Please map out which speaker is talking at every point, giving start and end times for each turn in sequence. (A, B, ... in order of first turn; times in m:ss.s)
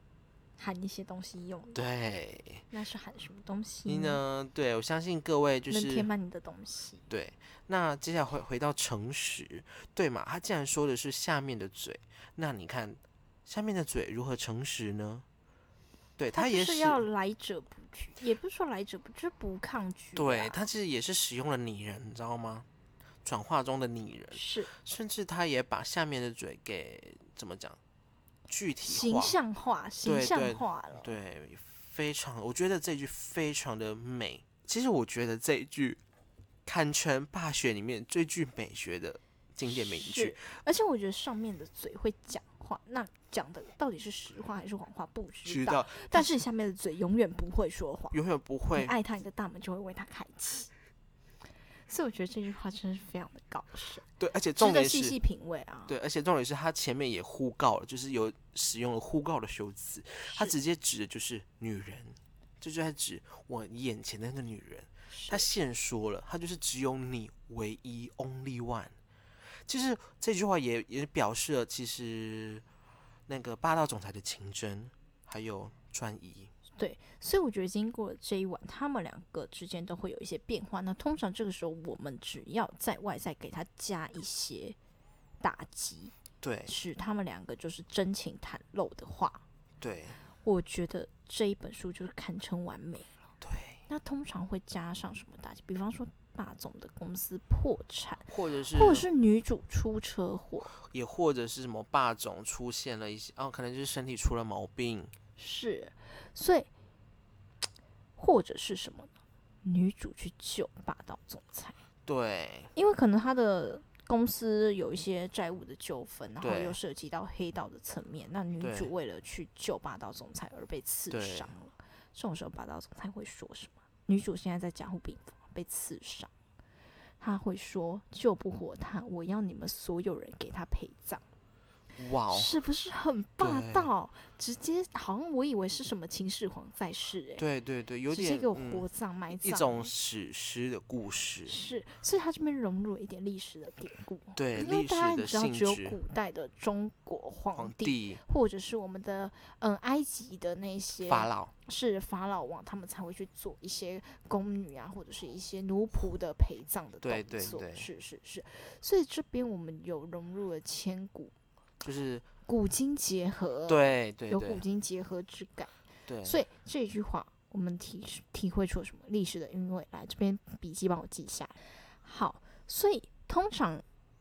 0:00.6-0:01.8 A
0:01.7-0:02.6 B
0:02.7-0:04.2 A
0:03.9-0:06.1 B
0:05.7-0:07.0 A
0:07.1-0:15.2 B
0:16.2-0:17.0 B
0:16.3-0:20.6 A
0:20.2-0:22.7 B
0:23.2-0:27.8 B
0:24.3-0:24.7 A
0:28.5-0:29.4 B
0:28.8-0:31.2 A
0:30.0-0:36.0 B
0:36.6-0:40.4 B
0:39.6-0:48.2 A
0:45.4-0:46.4 B
0:48.1-0:49.0 B
0:48.7-0:50.7 A
0:51.9-0:54.0 A
0:54.2-0:55.2 B
0:54.6-0:56.0 A
0:55.9-1:08.9 B
1:00.3-1:00.5 A
1:05.1-1:05.5 A
1:09.7-1:12.6 B
1:13.3-1:16.5 B
1:16.8-1:24.8 A
1:25.4-1:26.1 A
1:26.4-1:26.7 B
1:26.6-1:29.4 A
1:29.8-1:30.2 B
1:30.4-1:33.1 A
1:33.4-1:33.8 B
1:33.9-1:40.7 A
1:38.3-1:39.1 B
1:40.8-1:45.1 B
1:45.4-1:46.7 A
1:48.2-1:51.8 A
1:52.0-1:52.7 B
1:52.7-2:06.3 A
1:56.4-1:56.8 B
1:58.6-1:58.9 B
2:01.1-2:01.5 B
2:07.2-2:11.2 A
2:12.0-2:12.5 B
2:12.3-2:17.4 A
2:13.4-2:13.9 B
2:17.4-2:21.6 B
2:18.1-2:19.9 A
2:21.5-2:41.3 A
2:24.4-2:26.0 B
2:27.6-2:28.2 B
2:31.0-2:31.5 B
2:37.0-2:37.9 B
2:41.8-2:42.3 B
2:42.5-2:53.8 A
2:43.7-2:44.6 B
2:46.1-2:46.4 B